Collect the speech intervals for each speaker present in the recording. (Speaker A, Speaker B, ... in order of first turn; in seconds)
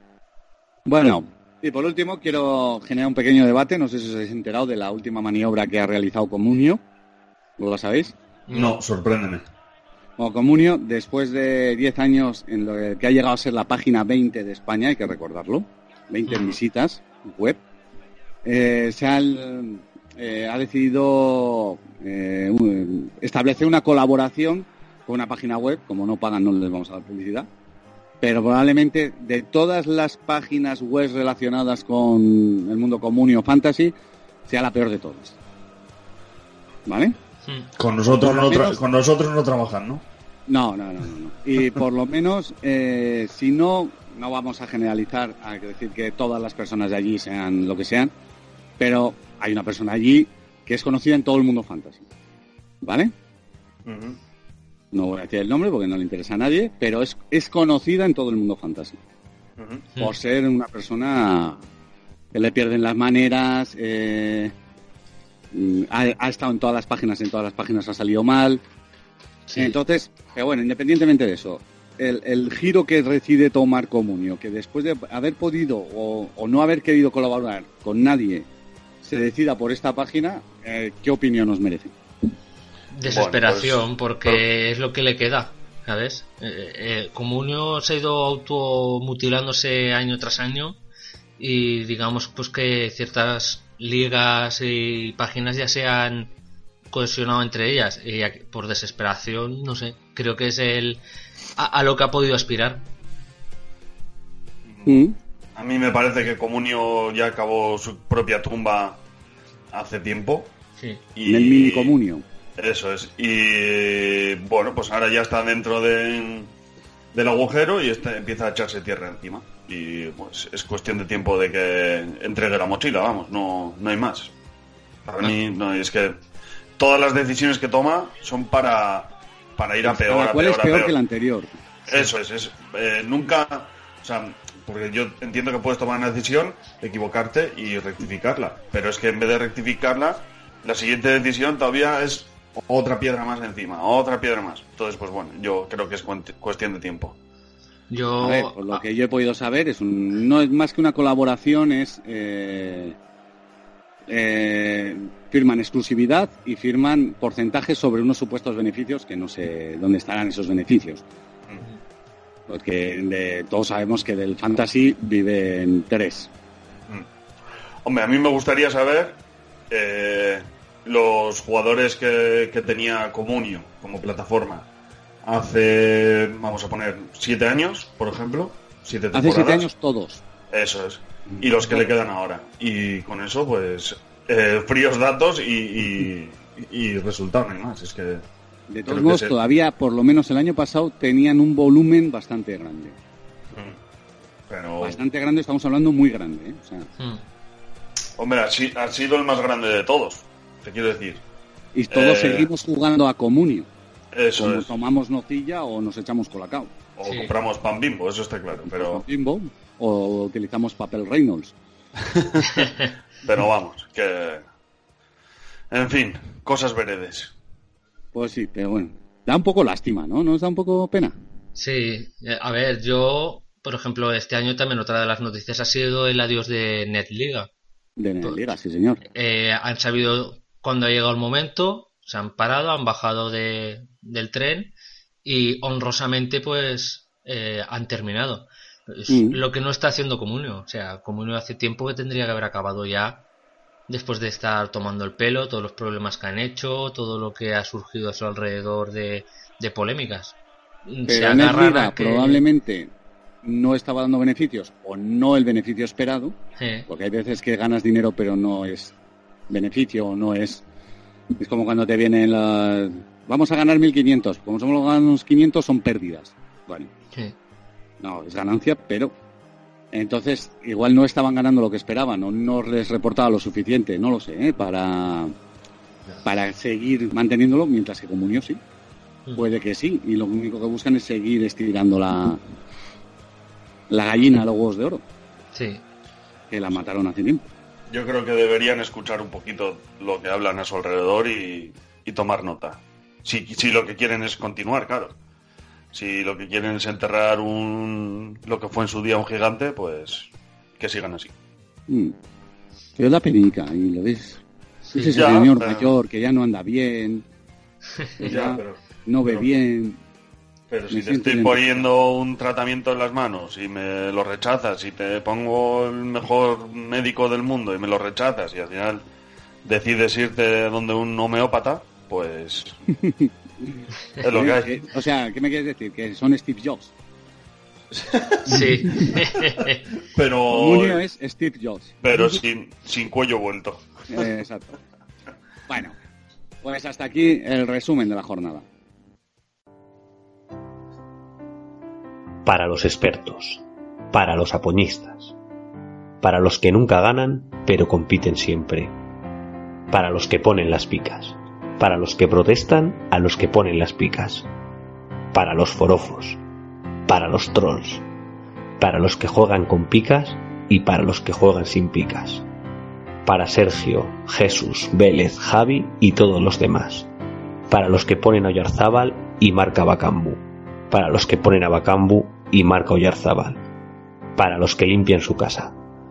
Speaker A: 0.9-6.8, 7.6-8.1, 10.2-17.6, 18.4-27.5, 28.2-33.9, 34.5-35.4, 36.9-37.1, 38.1-38.8, 40.5-48.1, 48.8-52.1, 52.8-53.1, 54.9-59.0, 60.0-61.6, 62.3-64.5, 65.5-68.6, 69.6-78.5, 79.0-81.9, 104.9-105.2, 111.3-112.2, 129.9-131.5, 148.2-153.0, 154.1-161.0, 162.5-166.3, 179.1-180.2, 181.3-181.8, 188.7-193.0, 194.8-196.9, 201.8-203.7, 204.4-206.7, 208.6-211.6, 218.1-221.1, 228.0-229.0, 239.1-239.4, 251.1-252.9, 253.4-256.4, 256.9-258.9, 259.5-260.6, 261.4-266.9, 268.0-269.1, 269.9-275.3, 276.2-278.6, 279.4-282.4, 283.9-285.0, 286.5-287.5, 301.9-302.1, 303.0-304.4, 304.9-307.2, 308.2-310.0, 310.9-311.9, 322.9-323.8, 324.3-326.9, 328.8-329.1, 330.5-332.4, 334.1-334.8, 335.7-335.9, 336.6-338.6
Speaker B: 8.5-8.8, 16.3-16.6, 69.5-69.8, 82.9-90.8, 91.4-96.3, 96.9-101.0, 101.6-102.8, 147.9-148.8, 207.0-207.3, 221.6-227.5, 229.1-234.7, 235.2-243.2, 243.9-250.3, 250.9-252.4, 256.6-256.9, 285.5-285.8, 304.9-305.2, 308.0-308.3, 328.5-329.8
Speaker C: 8.5-9.5, 37.8-40.0, 53.9-54.2, 59.6-59.9, 83.0-84.4, 104.7-109.0, 109.7-110.5, 111.2-112.0, 112.6-116.5, 117.1-124.3, 125.1-126.2, 126.8-130.9, 131.9-147.2, 167.8-169.2, 169.7-174.7, 175.2-179.7, 180.5-188.2, 188.9-189.3, 193.5-193.8, 194.5-195.0, 198.2-201.2, 201.9-202.5, 204.1-204.7, 207.0-209.0, 212.1-212.6, 213.2-214.4, 215.7-217.3, 287.9-295.1, 295.9-301.3, 305.1-305.9, 308.2-309.5, 310.7-319.0, 319.6-322.8, 324.2-324.7, 327.9-329.2, 330.1-331.0, 332.0-333.9
Speaker D: 342.4-345.4, 346.2-348.9, 349.9-354.5, 355.3-356.4, 357.1-358.0, 358.8-362.5, 363.2-367.1, 367.7-373.6, 374.4-375.8